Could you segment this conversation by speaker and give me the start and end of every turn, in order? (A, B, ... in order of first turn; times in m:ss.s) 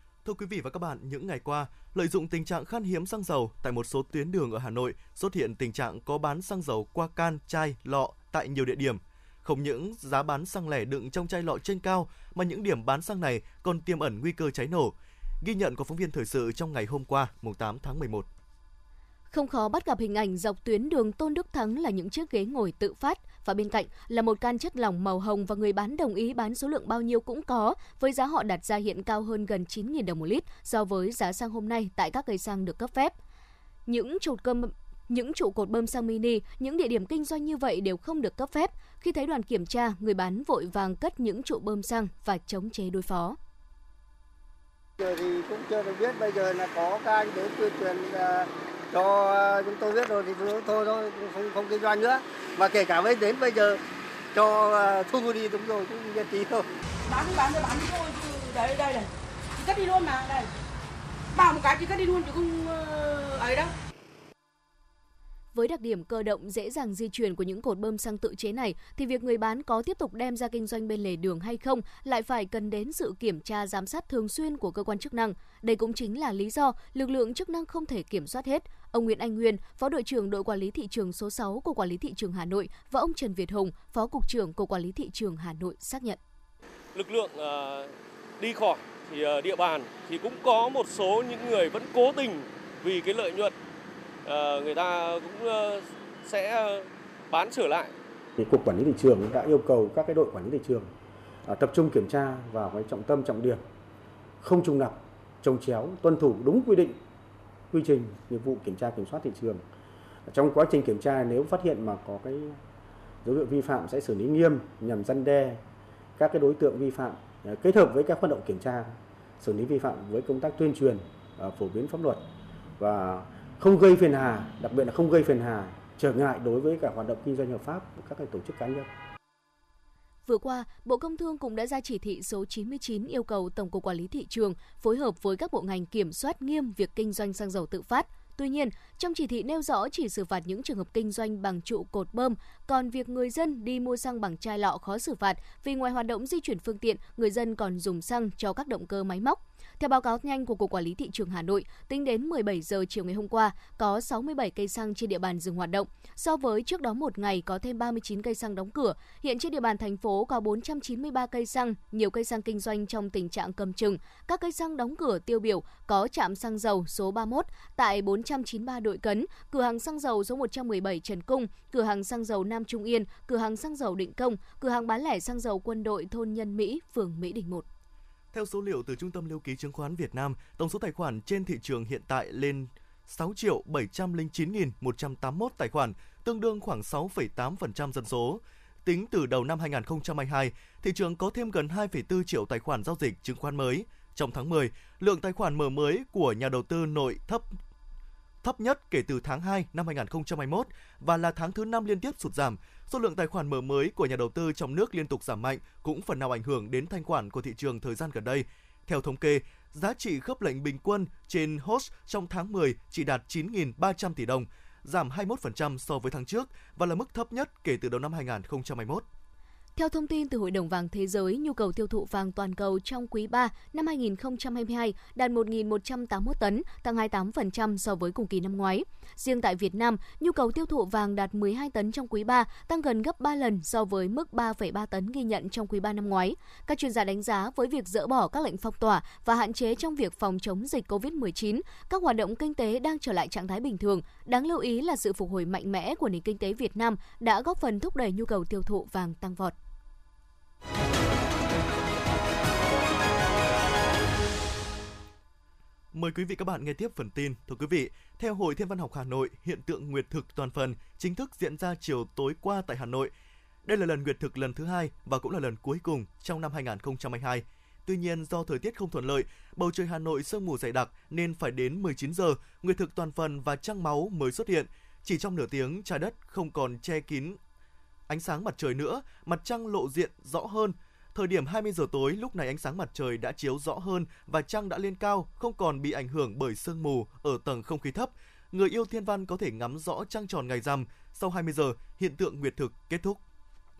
0:00.2-0:18.3 A
0:19.3-0:33.1 B
0:33.9-0:43.4 B
0:45.0-0:53.8 C
0:54.3-0:56.6 C
0:57.1-0:59.0 D
0:59.6-1:00.4 D
1:01.4-1:03.7 D
1:05.5-1:26.2 B
1:26.9-1:33.5 E
1:34.2-1:37.9 E
1:38.4-1:40.9 F
1:41.4-1:43.6 F
1:44.4-1:47.0 F
1:47.7-1:49.6 F
1:50.3-1:52.6 F
1:53.2-1:55.6 F
1:56.2-2:02.2 F
2:02.8-2:08.9 F
2:10.2-2:57.6 B
2:58.3-3:17.4 A
3:18.4-3:39.0 A
3:39.8-4:09.5 B
4:15.9-4:23.1 A
4:23.6-4:37.4 A
4:38.1-4:53.2 A